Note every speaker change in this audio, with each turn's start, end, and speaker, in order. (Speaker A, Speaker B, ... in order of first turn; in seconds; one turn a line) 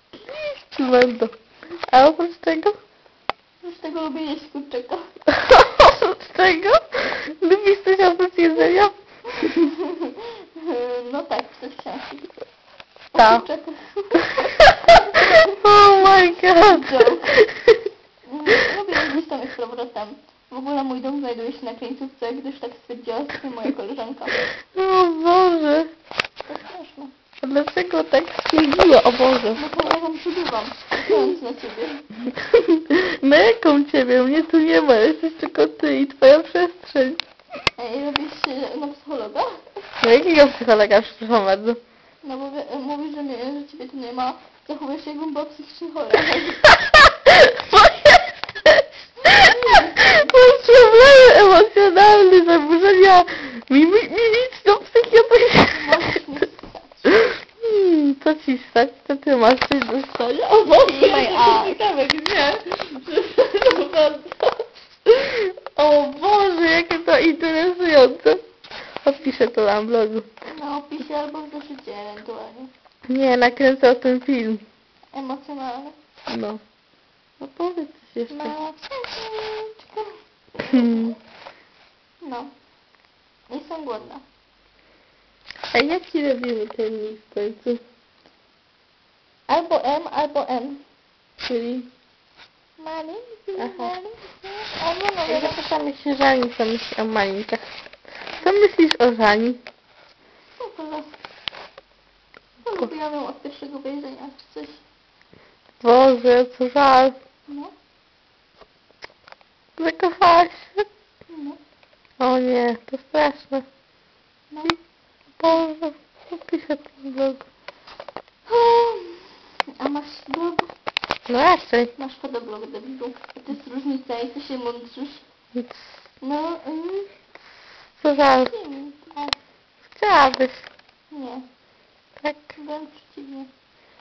Speaker A: 0.1-1.4
Speaker A: 1.9-2.8
Speaker B: 3.6-5.1
Speaker A: 5.3-8.9
Speaker B: 9.3-12.4
Speaker B: 13.1-17.4
Speaker A: 13.2-13.5
Speaker A: 14.6-17.8
Speaker B: 18.2-24.4
Speaker A: 24.7-25.9
Speaker B: 26.5-27.1
Speaker A: 27.4-29.6
Speaker B: 29.6-32.1
Speaker A: 32.5-37.2
Speaker B: 37.8-39.6
Speaker A: 40.0-41.8
Speaker B: 42.2-46.8
Speaker A: 46.9-49.5
Speaker B: 49.2-50.4
Speaker A: 50.1-56.2
Speaker B: 55.7-57.1
Speaker A: 57.1-68.4
Speaker B: 60.7-61.8
Speaker A: 69.0-70.3
Speaker B: 70.5-72.7
Speaker A: 73.1-74.7
Speaker B: 75.1-76.0
Speaker A: 76.3-76.6
Speaker A: 77.4-78.6
Speaker B: 78.3-81.2
Speaker A: 80.7-81.2
Speaker B: 82.2-82.5
Speaker B: 83.5-84.2
Speaker A: 85.7-87.8
Speaker B: 89.5-90.8
Speaker A: 91.4-91.9
Speaker B: 92.8-95.6
Speaker A: 93.6-93.9
Speaker A: 95.3-97.7
Speaker A: 98.4-99.6
Speaker B: 100.6-101.2
Speaker B: 102.6-104.8
Speaker A: 105.8-107.2
Speaker B: 107.5-107.7
Speaker A: 109.8-110.8
Speaker B: 111.3-111.6
Speaker A: 112.2-113.7
Speaker B: 114.5-114.8
Speaker A: 115.4-117.4
Speaker B: 118.5-120.7
Speaker A: 121.3-121.9
Speaker B: 122.0-125.2
Speaker B: 126.2-127.1
Speaker A: 128.0-128.5
Speaker B: 128.4-129.3
Speaker A: 129.8-130.7
Speaker B: 131.1-131.4
Speaker A: 132.2-132.5
Speaker B: 132.6-133.5